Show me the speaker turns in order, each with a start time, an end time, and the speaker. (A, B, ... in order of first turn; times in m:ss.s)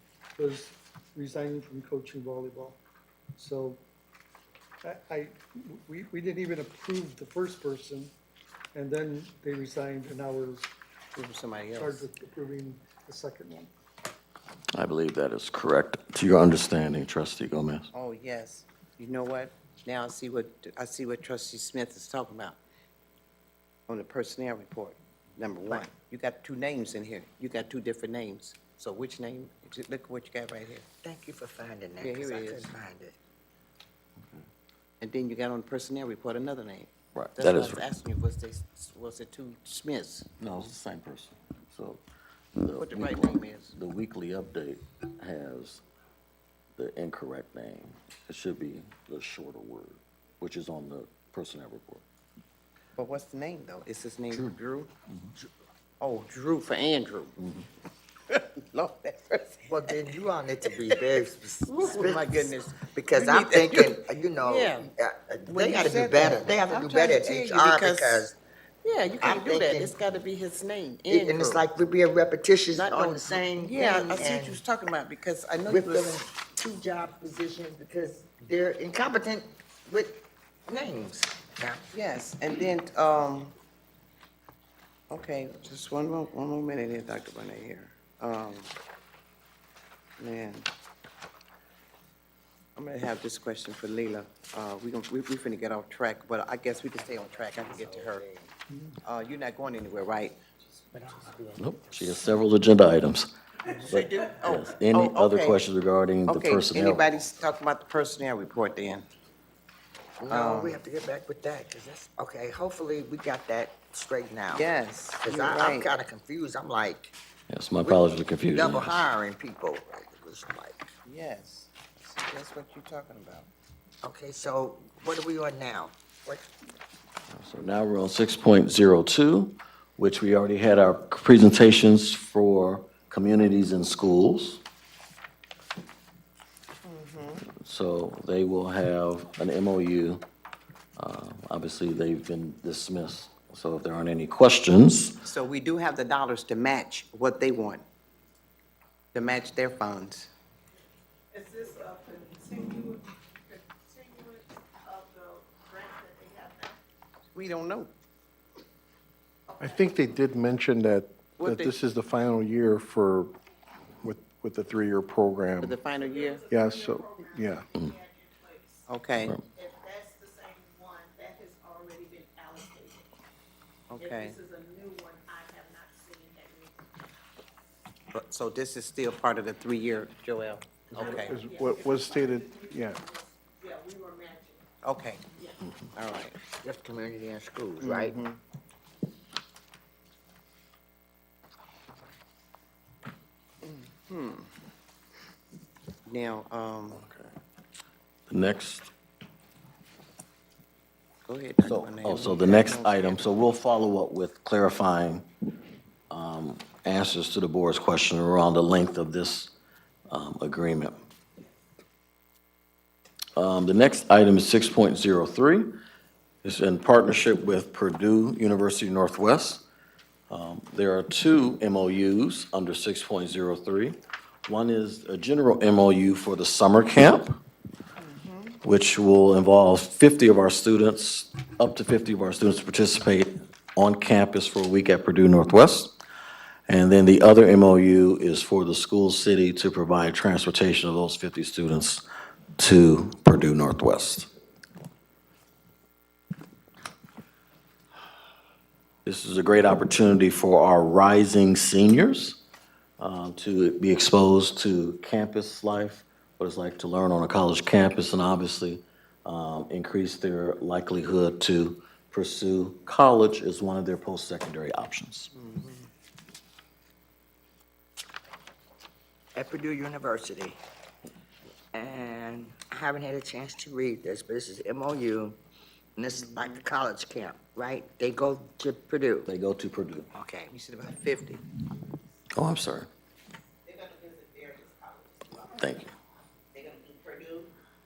0:00.4-0:02.8 A
0:03.4-0:03.8 A
0:04.8-0:08.1 A
0:08.7-0:10.7 A
0:11.1-0:12.0 B
0:11.7-0:13.7 A
0:14.7-0:17.9 C
0:17.9-0:22.6 B
0:23.9-0:30.9 B
0:31.0-0:33.2 D
0:32.0-0:32.7 B
0:35.0-0:40.3 B
0:37.1-0:37.8 C
0:40.4-0:42.0 C
0:42.6-0:45.8 C
0:42.8-0:43.8 B
0:46.8-0:52.0 C
0:53.0-0:54.9 B
0:56.0-0:57.4 B
0:58.6-1:00.1 B
0:59.6-1:08.4 D
1:00.7-1:01.0 B
1:01.7-1:04.9 B
1:05.4-1:08.3 B
1:08.8-1:11.7 B
1:09.2-1:10.0 D
1:11.1-1:14.6 D
1:12.7-1:16.3 B
1:15.7-1:21.8 D
1:21.9-1:23.5 B
1:25.1-1:28.7 B
1:30.2-1:30.7 B
1:32.8-1:38.3 B
1:36.9-1:38.4 D
1:39.0-1:40.4 B
1:40.9-1:42.5 D
1:41.6-1:43.3 C
1:43.8-1:45.6 B
1:43.9-1:47.2 C
1:46.3-1:49.1 B
1:50.2-1:54.7 D
1:50.3-1:50.8 B
1:54.5-1:55.9 B
1:55.2-1:57.1 D
1:57.5-1:59.0 C
1:57.8-2:00.9 D
2:01.1-2:03.5 B
2:04.0-2:06.5 D
2:07.3-2:14.6 C
2:16.8-2:17.4 B
2:17.5-2:20.2 C
2:21.0-2:25.2 C
2:25.2-2:27.8 B
2:29.1-2:30.3 B
2:31.3-2:36.8 E
2:37.3-2:37.9 B
2:39.5-2:40.2 E
2:39.6-2:43.4 F
2:41.4-2:41.8 B
2:44.0-2:45.8 F
2:45.6-2:46.5 B
2:45.9-2:48.9 E
2:46.5-2:47.7 F
2:48.9-2:49.4 B
2:49.5-2:53.1 E
2:53.9-2:54.4 B
2:54.0-2:56.9 E
2:58.1-3:01.4 B
3:00.9-3:03.0 F
3:00.9-3:04.8 E
3:04.8-3:05.3 B
3:05.3-3:05.7 E
3:05.9-3:06.4 B
3:06.6-3:08.2 D
3:07.8-3:08.4 B
3:13.6-3:14.5 B
3:16.1-3:17.0 B
3:16.9-3:17.3 C
3:18.3-3:18.9 C
3:21.3-3:23.4 B
3:21.6-3:25.3 C
3:26.1-3:29.5 C
3:30.1-3:31.0 C
3:33.4-3:35.7 C
3:36.4-3:39.6 C
3:40.3-3:47.4 C
3:48.0-3:48.6 B
3:48.6-3:56.0 C
3:56.7-4:02.0 C
4:02.6-4:04.3 C
4:09.0-4:12.4 C
4:13.0-4:25.3 C
4:25.3-4:25.8 B
4:29.4-4:30.6 D
4:31.7-4:35.4 D
4:36.0-4:39.3 D
4:36.3-4:36.6 B
4:39.2-4:40.1 C
4:40.1-4:40.5 D
4:40.5-4:41.4 B
4:42.4-4:42.9 C
4:43.7-4:45.7 B
4:45.5-4:45.9 C
4:46.5-4:47.5 B